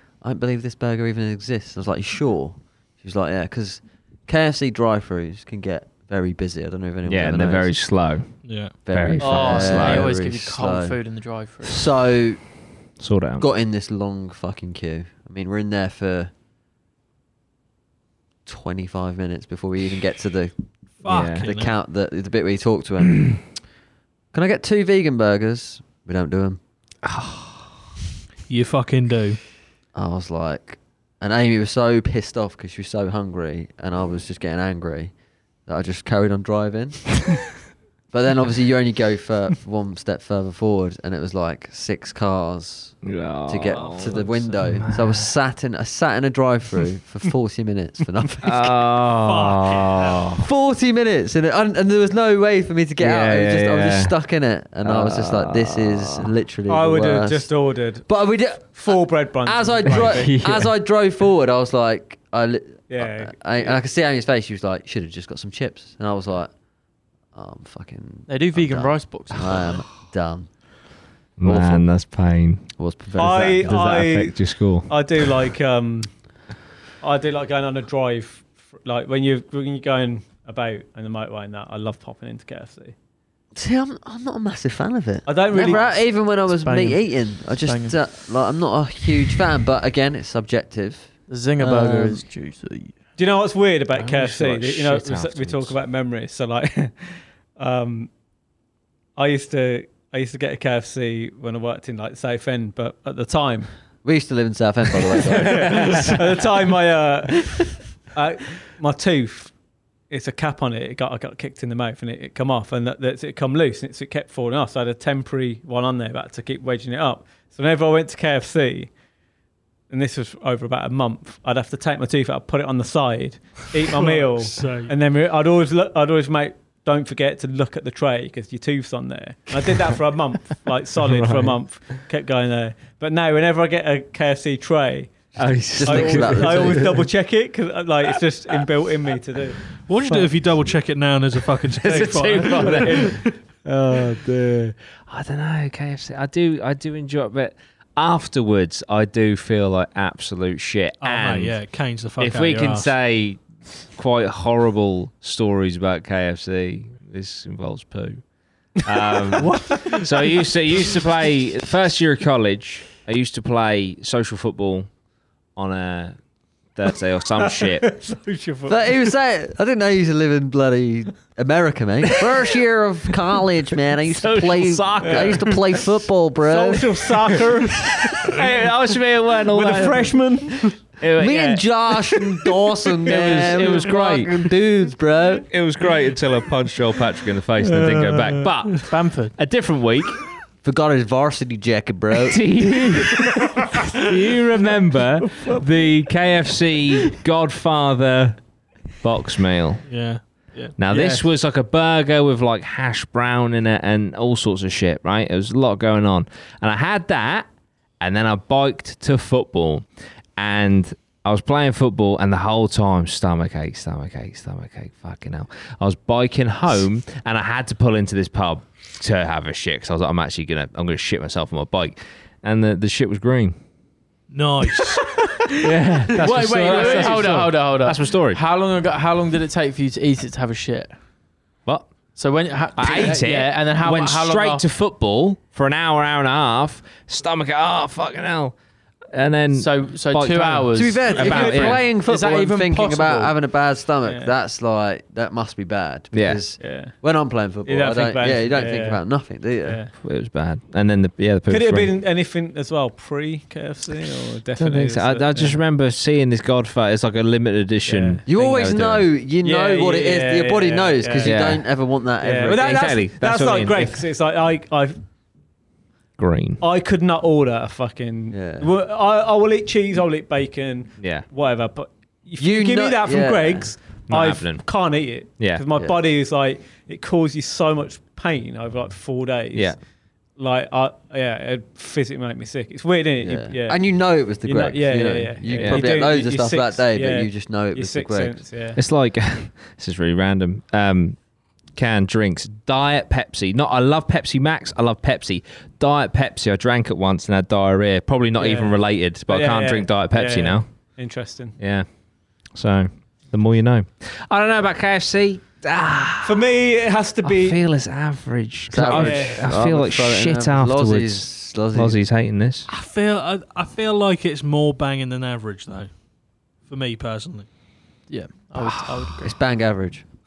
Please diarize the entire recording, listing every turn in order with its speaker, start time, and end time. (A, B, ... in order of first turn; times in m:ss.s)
0:00.2-0:07.7 A
0:07.1-0:10.1 B
0:08.4-0:08.8 C
0:08.9-0:11.0 A
0:09.2-0:11.9 D
0:11.6-0:12.4 A
0:13.0-0:13.5 B
0:13.4-0:16.3 A
0:18.5-0:20.5 A
0:21.0-0:21.7 C
0:21.1-0:21.5 B
0:21.4-0:23.5 A
0:24.3-0:26.6 A
0:27.0-0:27.7 B
0:28.5-0:29.4 C
0:29.9-0:35.1 A
0:35.7-0:37.3 A
0:38.1-0:48.8 A
0:43.0-0:45.3 B
0:43.8-0:44.6 C
0:48.4-0:50.4 B
0:49.2-0:50.3 C
0:50.4-0:57.5 A
0:53.0-0:54.1 B
0:54.8-0:56.3 B
0:56.7-0:58.1 E
0:58.0-1:06.5 A
0:58.6-1:00.3 E
0:59.9-1:00.7 B
1:02.9-1:03.8 E
1:07.3-1:10.5 A
1:08.3-1:09.8 D
1:11.4-1:12.7 B
1:11.4-1:11.9 A
1:12.8-1:13.8 A
1:13.2-1:16.1 E
1:13.6-1:15.0 B
1:17.0-1:23.0 E
1:23.6-1:32.2 A
1:25.3-1:25.9 E
1:26.5-1:28.0 D
1:31.3-1:32.9 D
1:33.2-1:38.1 E
1:34.0-1:35.8 B
1:39.2-1:43.7 E
1:44.0-1:46.4 A
1:45.3-1:47.6 E
1:45.8-1:46.1 B
1:48.1-1:49.5 E
1:50.1-1:58.9 E
1:59.9-2:20.3 E
2:03.9-2:04.9 C
2:11.0-2:11.6 B
2:15.4-2:17.0 B
2:15.7-2:16.9 A
2:19.9-2:23.3 C
2:21.7-2:23.2 B
2:22.5-2:24.1 E
2:23.7-2:33.4 B
2:31.0-2:32.9 C
2:33.9-2:38.2 B
2:38.8-2:44.9 B
2:39.4-2:40.3 E
2:45.6-2:46.2 B
2:46.8-2:48.0 B
2:47.4-2:49.0 E
2:48.7-2:57.1 A
2:54.1-2:55.8 B
2:55.0-2:55.3 E
2:56.4-2:58.4 E
2:58.2-3:00.3 B
2:59.5-3:00.8 E
3:01.0-3:02.2 B
3:01.2-3:05.5 A
3:03.0-3:04.4 B
3:05.5-3:10.2 B
3:07.6-3:08.5 E
3:08.9-3:09.3 D
3:10.6-3:13.0 A
3:12.3-3:18.4 B
3:19.0-3:19.9 B
3:19.9-3:20.7 C
3:20.8-3:27.5 B
3:20.9-3:21.2 D
3:28.0-3:29.8 B
3:30.4-3:43.6 B
3:44.3-3:45.2 C
3:45.6-3:48.4 B
3:46.1-3:47.4 C
3:46.2-3:51.0 D
3:52.2-3:54.7 D
3:52.8-3:58.6 B
3:59.1-4:01.9 B
3:59.5-4:03.4 D
4:00.7-4:09.8 A
4:01.1-4:01.8 E
4:06.1-4:06.4 B
4:06.6-4:06.9 E
4:07.6-4:09.0 E
4:09.6-4:09.9 E
4:10.0-4:11.9 B
4:11.5-4:15.6 E
4:14.6-4:19.1 B
4:17.9-4:18.7 E
4:18.3-4:22.9 A
4:19.4-4:21.4 E
4:21.2-4:21.6 B
4:22.2-4:25.0 E
4:22.5-4:24.0 B
4:26.2-4:26.6 B
4:26.6-4:39.8 E
4:28.3-4:28.7 A
4:31.0-4:31.2 B
4:32.4-4:33.7 A
4:34.1-4:34.7 B
4:40.4-4:43.8 E
4:43.2-4:48.4 A
4:44.4-4:48.8 E
4:45.6-4:45.9 B
4:48.8-4:51.2 B
4:51.8-5:00.6 B
4:58.4-5:01.6 E
5:01.6-5:01.9 B
5:02.5-5:06.4 B
5:06.2-5:07.6 E
5:07.2-5:12.7 B
5:08.7-5:12.0 A
5:08.9-5:09.4 E
5:12.7-5:15.9 C
5:16.6-5:17.5 C
5:18.1-5:19.4 D
5:18.6-5:19.1 B
5:19.2-5:20.1 A